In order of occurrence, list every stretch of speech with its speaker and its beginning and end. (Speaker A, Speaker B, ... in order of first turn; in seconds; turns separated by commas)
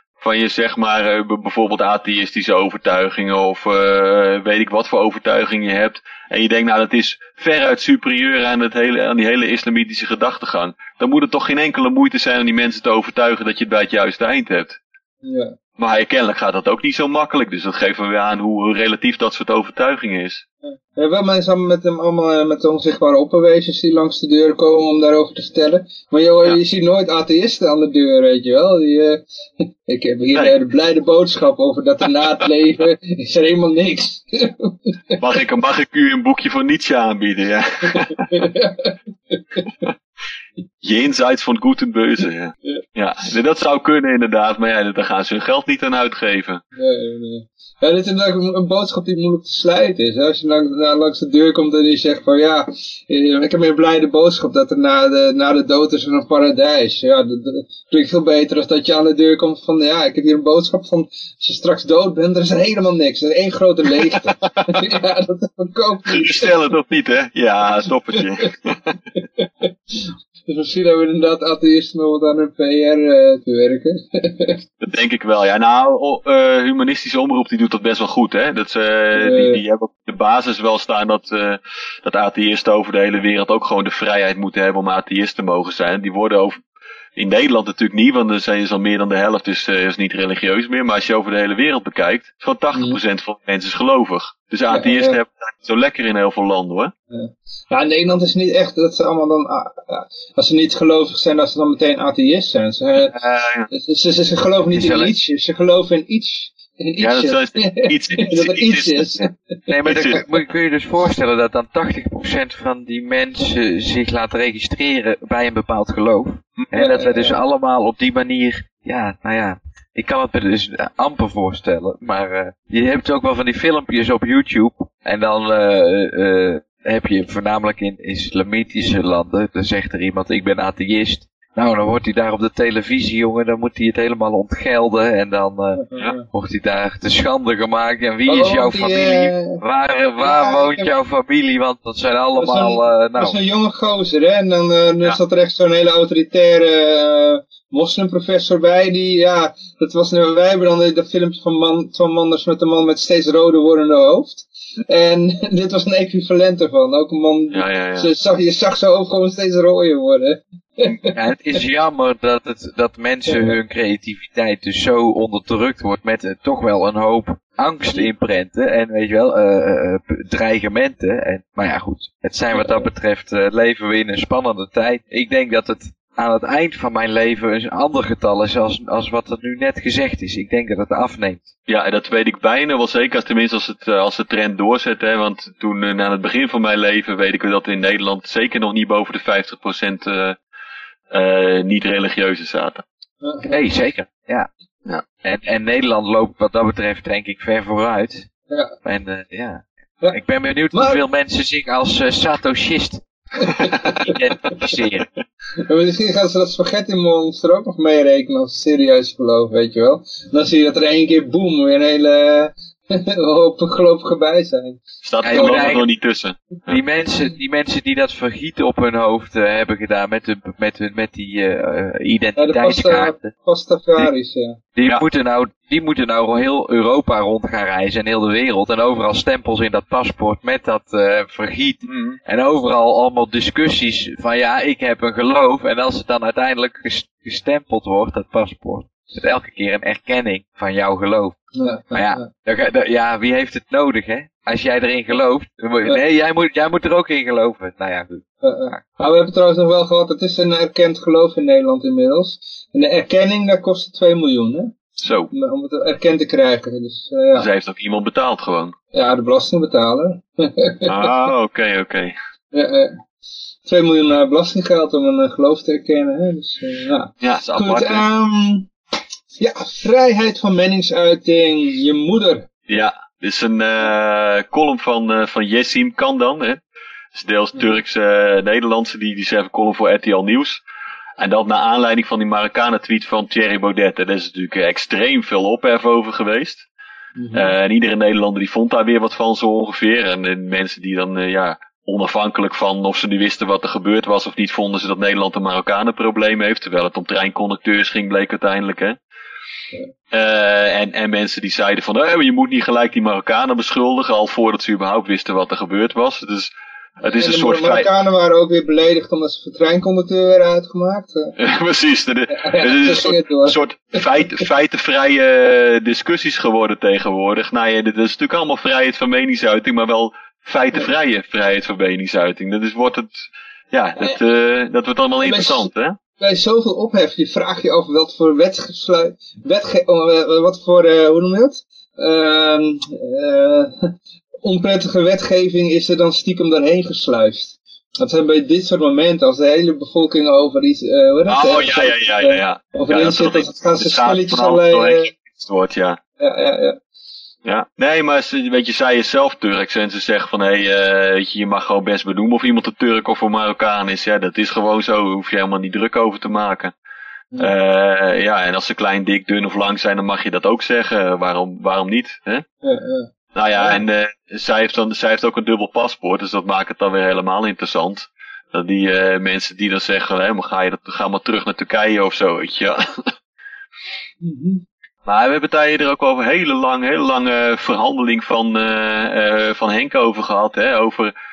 Speaker A: 0.2-14.8, Speaker B: 15.2-15.5, Speaker A: 15.8-20.4, Speaker B: 20.6-29.2, Speaker B: 29.9-35.2, Speaker A: 35.2-38.4, Speaker B: 37.9-39.9, Speaker A: 40.8-46.6, Speaker B: 46.8-66.5, Speaker A: 64.4-64.7, Speaker A: 66.0-68.8, Speaker B: 69.4-74.6, Speaker A: 74.8-86.6, Speaker B: 79.2-79.6, Speaker A: 87.2-96.9, Speaker B: 94.7-95.2, Speaker B: 97.1-103.1, Speaker A: 103.1-103.7, Speaker B: 103.7-110.2, Speaker C: 104.7-105.1, Speaker A: 107.0-109.2, Speaker C: 109.7-143.4, Speaker A: 109.9-110.2, Speaker B: 116.7-117.4, Speaker B: 135.8-136.2, Speaker B: 138.3-139.6, Speaker B: 140.2-140.9, Speaker B: 142.4-161.1, Speaker A: 157.5-158.1, Speaker C: 161.1-181.5, Speaker B: 163.3-163.6, Speaker B: 172.5-172.9, Speaker A: 181.7-190.4, Speaker A: 191.1-192.8, Speaker B: 193.2-193.5, Speaker C: 193.4-194.5, Speaker C: 195.2-198.3, Speaker C: 198.8-203.0, Speaker B: 200.7-201.0, Speaker B: 203.4-204.2, Speaker C: 203.7-205.1, Speaker B: 205.6-215.7, Speaker A: 215.0-216.8, Speaker C: 215.2-215.8, Speaker C: 216.7-223.3, Speaker B: 222.4-224.6, Speaker C: 224.8-241.4, Speaker A: 231.9-232.2, Speaker B: 241.6-242.3, Speaker C: 241.9-248.8, Speaker B: 248.4-254.8, Speaker A: 255.0-255.3, Speaker B: 255.3-257.5, Speaker A: 257.3-258.7, Speaker B: 258.9-261.1, Speaker A: 260.8-262.1, Speaker B: 262.5-263.0, Speaker B: 263.6-268.7, Speaker A: 267.2-268.1, Speaker B: 269.4-272.5, Speaker A: 272.7-276.6, Speaker A: 277.1-280.6, Speaker A: 281.2-286.7, Speaker B: 287.2-287.5, Speaker A: 287.3-299.0, Speaker A: 300.1-307.9, Speaker B: 307.2-311.3, Speaker A: 311.4-326.0, Speaker B: 312.3-314.5, Speaker B: 325.2-333.9, Speaker B: 334.4-345.1, Speaker A: 341.3-346.0, Speaker B: 346.2-346.8, Speaker A: 347.4-356.7, Speaker A: 357.4-362.4, Speaker B: 362.6-363.8, Speaker A: 363.3-373.1, Speaker B: 374.2-374.6, Speaker A: 375.1-381.1